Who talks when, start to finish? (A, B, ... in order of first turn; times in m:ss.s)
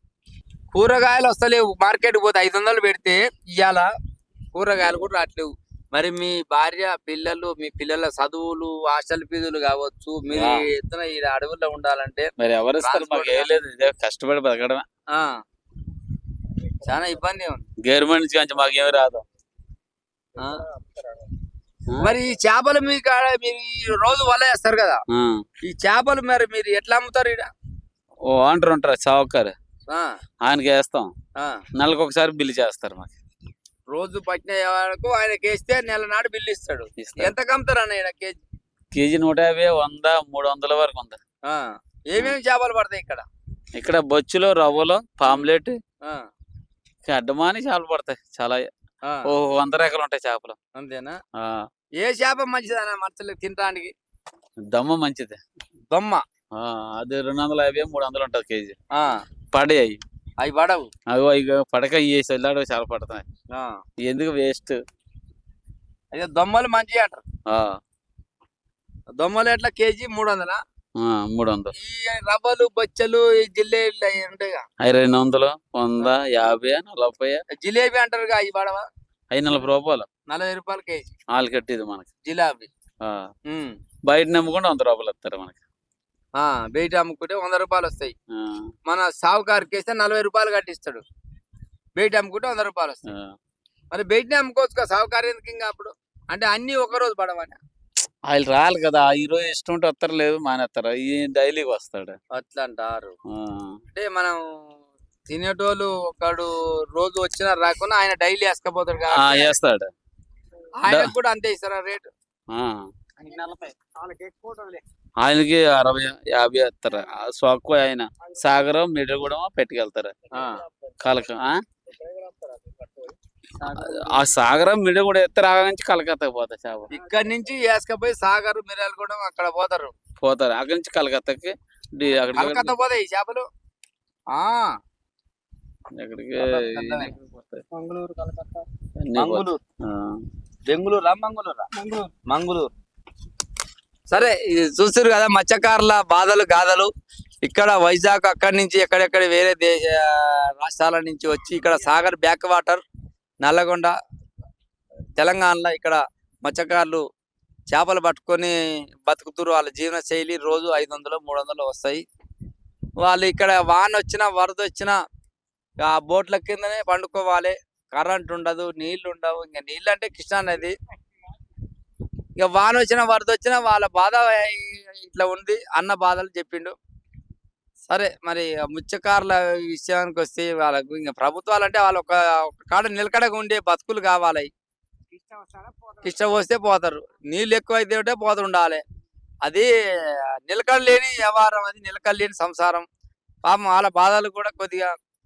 0:00.7-0:03.9 A
0:04.5-0:13.5 A
0:10.3-0:10.7 B
0:12.4-0:14.8 B
0:16.8-0:17.6 A
0:17.8-0:19.2 B
0:20.4-0:20.6 A
0:22.0-0:25.0 A
0:25.1-0:25.4 B
0:25.6-0:27.5 A
0:28.3-0:29.6 B
0:30.4-0:31.1 B
0:31.4-0:31.6 A
0:31.8-0:33.1 B
0:33.9-0:38.4 A
0:37.0-0:37.3 B
0:38.9-0:41.2 B
0:41.5-0:43.2 A
0:43.8-0:45.8 B
0:47.0-0:48.6 B
0:49.3-0:50.6 B
0:50.8-0:51.2 A
0:51.4-0:51.7 B
0:52.0-0:53.9 A
0:54.7-0:55.4 B
0:55.9-0:56.2 A
0:56.5-0:58.8 B
0:58.9-0:59.2 A
0:59.5-1:00.0 B
1:00.4-1:00.9 A
1:01.1-1:03.2 B
1:03.5-1:03.8 A
1:04.0-1:04.8 B
1:06.1-1:07.2 A
1:07.5-1:07.8 B
1:09.2-1:10.6 A
1:11.0-1:11.7 B
1:11.8-1:14.6 A
1:14.8-1:17.4 B
1:17.6-1:18.8 A
1:19.3-1:20.1 B
1:20.3-1:21.0 A
1:21.3-1:22.1 B
1:22.2-1:22.7 A
1:23.0-1:23.3 B
1:23.5-1:23.8 A
1:24.1-1:25.6 B
1:26.4-1:28.1 A
1:28.3-1:28.7 B
1:28.9-1:31.0 A
1:32.0-1:33.0 A
1:33.1-1:33.4 B
1:33.9-1:37.6 A
1:38.3-1:42.2 B
1:42.4-1:43.1 A
1:43.3-1:43.8 B
1:43.9-1:44.4 A
1:45.3-1:49.6 A
1:49.1-1:49.9 B
1:50.8-1:52.1 A
1:50.9-1:51.1 B
1:52.5-1:52.9 B
1:53.2-1:54.8 C
1:55.2-2:00.1 B
2:00.3-2:00.6 A
2:01.0-2:01.6 B
2:02.1-2:02.9 C
2:03.6-2:06.9 B
2:06.9-2:09.9 A
2:10.2-2:12.8 B
2:12.4-2:13.5 A
2:14.3-2:14.7 A
2:16.0-2:17.6 B
2:16.4-2:17.1 A
2:17.7-2:18.6 C
2:19.0-2:20.2 B
2:19.2-2:19.6 A
2:20.7-2:22.7 A
2:24.1-2:26.9 A
2:27.4-2:32.8 A
2:33.4-2:33.9 A
2:35.2-2:37.0 A
2:37.7-2:38.5 A
2:39.0-2:42.0 A
2:43.0-2:45.0 A
2:45.8-2:50.8 A
2:52.4-2:56.7 A
2:57.9-3:04.5 A
3:06.0-3:08.8 A
3:09.4-3:12.9 A
3:13.5-3:14.9 A